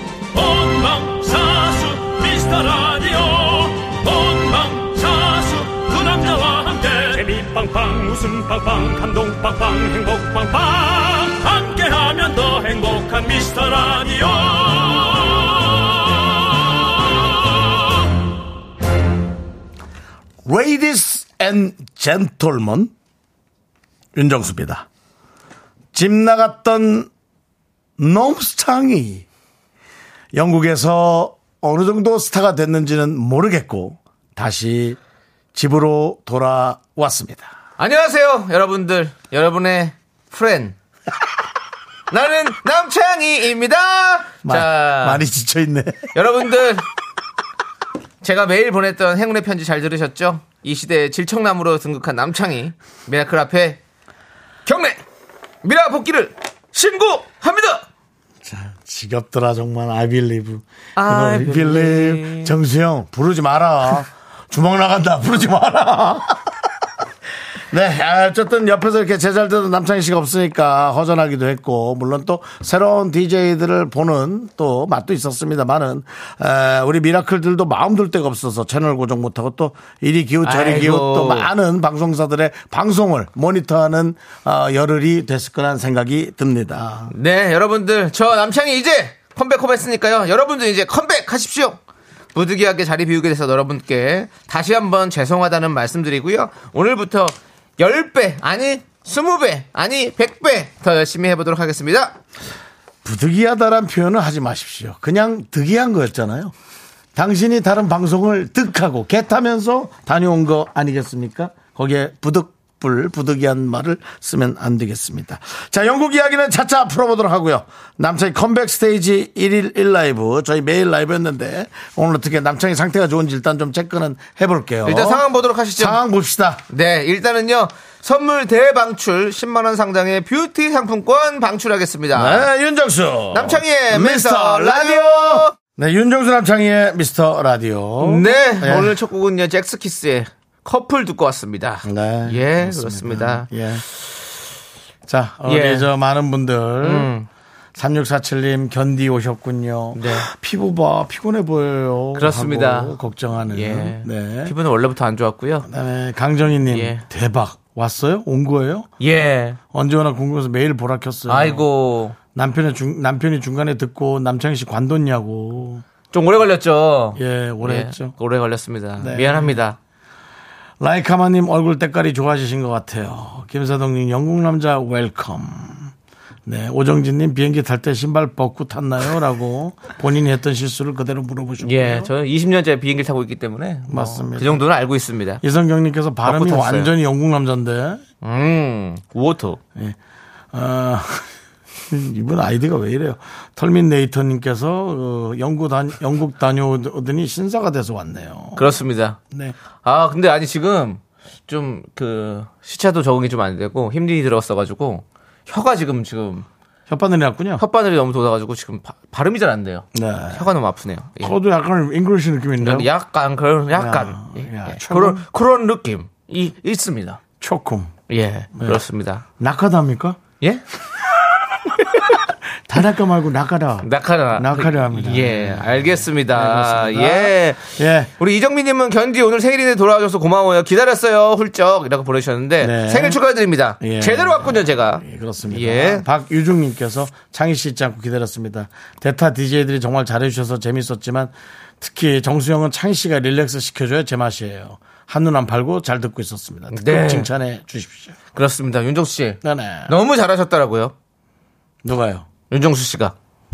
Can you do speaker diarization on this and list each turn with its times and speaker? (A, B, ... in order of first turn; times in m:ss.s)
0:00.3-0:17.8 A
0:20.4-0:22.9 B
0:24.1-0:24.8 B
0:25.9-0:27.1 B
0:28.0-0:29.2 B
0:30.3-0:35.0 B
0:35.5-0:37.5 B
0:37.8-0:40.7 C
0:42.1-0:45.2 C
0:44.4-0:46.1 B
0:46.1-0:46.8 C
0:48.2-0:53.8 C
0:54.6-0:55.0 C
0:55.6-0:57.8 C
0:58.4-1:06.7 B
1:01.0-1:02.5 C
1:07.7-1:27.1 B
1:20.4-1:21.5 C
1:27.1-1:31.8 C
1:32.3-1:42.2 C
1:43.0-1:46.5 B
1:47.1-2:05.2 B
2:04.8-2:06.0 C
2:05.8-2:06.6 B
2:06.7-2:12.5 C
2:12.1-2:19.0 B
2:13.3-2:15.5 C
2:18.0-2:23.5 C
2:21.8-2:23.8 B
2:25.0-2:27.1 B
2:25.4-2:25.9 C
2:26.8-2:27.3 C
2:27.7-2:34.6 B
2:29.9-2:30.3 C
2:32.2-2:33.0 C
2:33.5-2:35.7 C
2:35.6-2:38.9 B
2:36.7-2:37.0 C
2:39.0-2:39.6 C
2:39.7-2:41.6 B
2:41.3-2:42.2 C
2:42.3-2:45.8 B
2:46.1-2:49.8 C
2:47.2-2:48.1 B
2:49.0-2:49.6 B
2:50.8-2:55.9 B
2:56.4-3:02.1 B
3:01.6-3:05.4 C
3:03.9-3:04.6 B
3:05.4-3:08.0 B
3:06.2-3:06.9 C
3:08.2-3:09.6 C
3:10.5-3:11.3 B
3:11.9-3:18.7 B
3:18.6-3:19.2 C
3:19.8-3:26.4 C
3:26.9-3:27.6 B
3:27.6-3:31.4 C
3:29.9-3:30.5 B
3:31.2-3:32.9 B
3:32.6-3:37.2 C
3:33.7-3:35.2 B
3:37.4-3:37.9 B
3:38.1-3:39.2 C
3:38.6-3:38.8 B
3:39.4-3:40.2 B
3:41.7-3:48.1 B
3:43.8-3:56.0 C
3:52.6-3:53.2 B
3:53.8-4:08.1 B
4:06.7-4:07.3 C
4:08.3-4:10.9 C
4:09.4-4:09.9 B
4:11.8-4:12.3 B
4:12.5-4:13.1 C